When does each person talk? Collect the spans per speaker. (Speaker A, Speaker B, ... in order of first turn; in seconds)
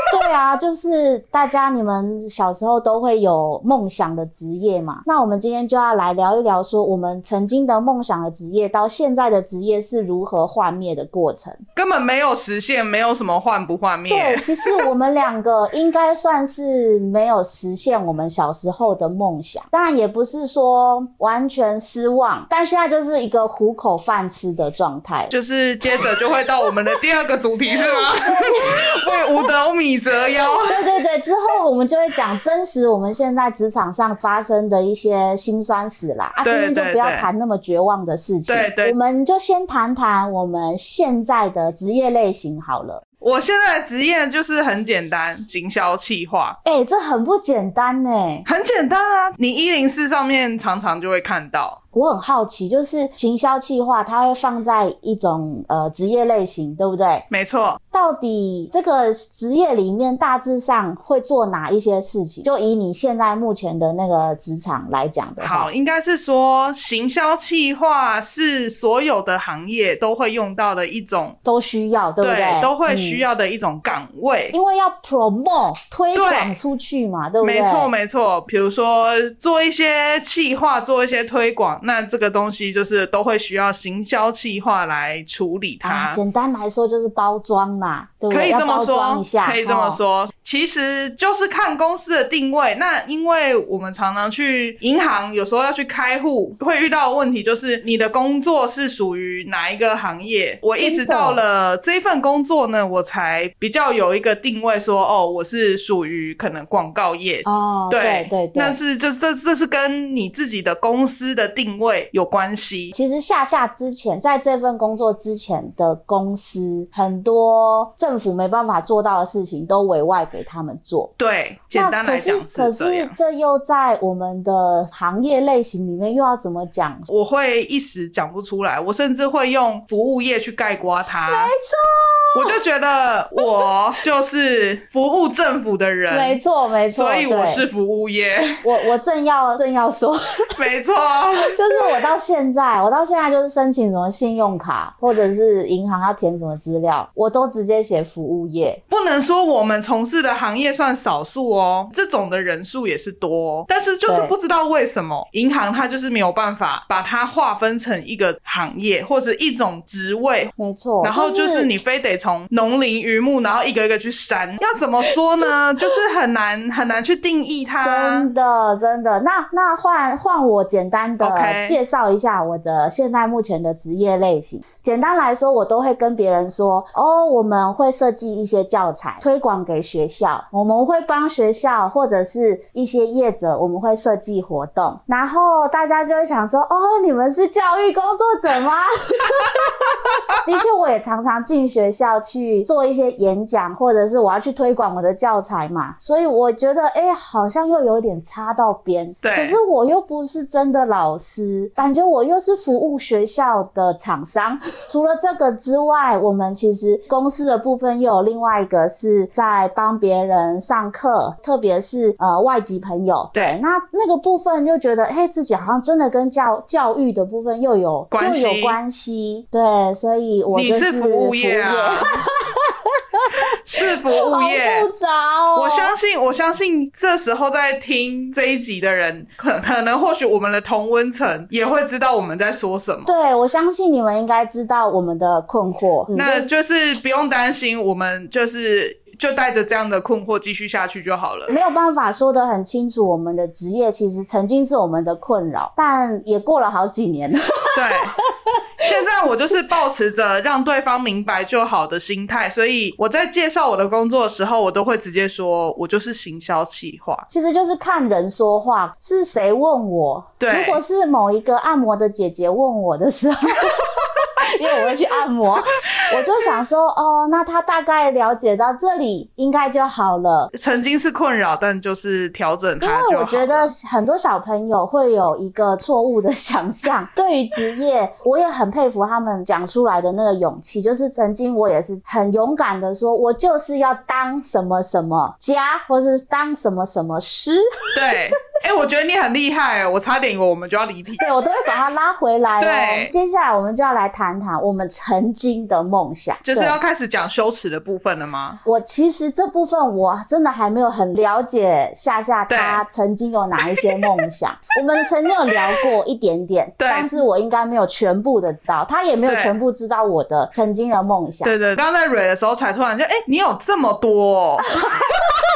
Speaker A: 0.1-11.6, 14.1-25.3, 27.8-28.9, 30.7-43.0, 46.6-48.5, 51.9-57.3, 57.9-65.7, 71.5-73.2, 74.5-77.9, 85.8-90.0, 100.8-101.4, 107.5-108.8, 112.9-121.1, 121.7-127.1, 131.3-132.6, 136.1-137.6, 138.6-140.4, 141.4-148.8, 154.1-154.3, 160.6-161.7, 167.8-223.4, 224.1-225.9, 233.1-236.5, 241.5-248.6, 257.3-270.5, 272.8-287.6, 291.2-296.8, 298.6-311.5, 314.7-315.2
Speaker B: 11.8-14.8, 25.3-30.8, 36.4-37.3, 38.5-39.0, 43.2-46.6, 48.5-51.8, 57.3-57.8, 65.4-71.4, 72.2-74.5, 76.1-76.6, 77.4-86.2, 88.3-112.9, 121.2-123.1, 127.1-131.5, 132.3-136.4, 136.9-138.6, 140.6-141.6, 148.9-168.3, 171.2-171.8, 189.6-190.2, 199.2-199.6, 218.1-218.8, 220.5-222.2, 223.4-224.9, 225.6-233.1, 236.1-241.5, 247.7-248.1, 248.8-257.2, 260.4-260.8, 263.6-264.9, 265.9-266.4, 270.5-273.7, 287.9-291.3, 292.6-293.1, 296.4-298.6, 302.5-302.8, 303.8-304.1, 305.5-305.8, 306.8-307.1, 309.2-309.6, 311.4-314.8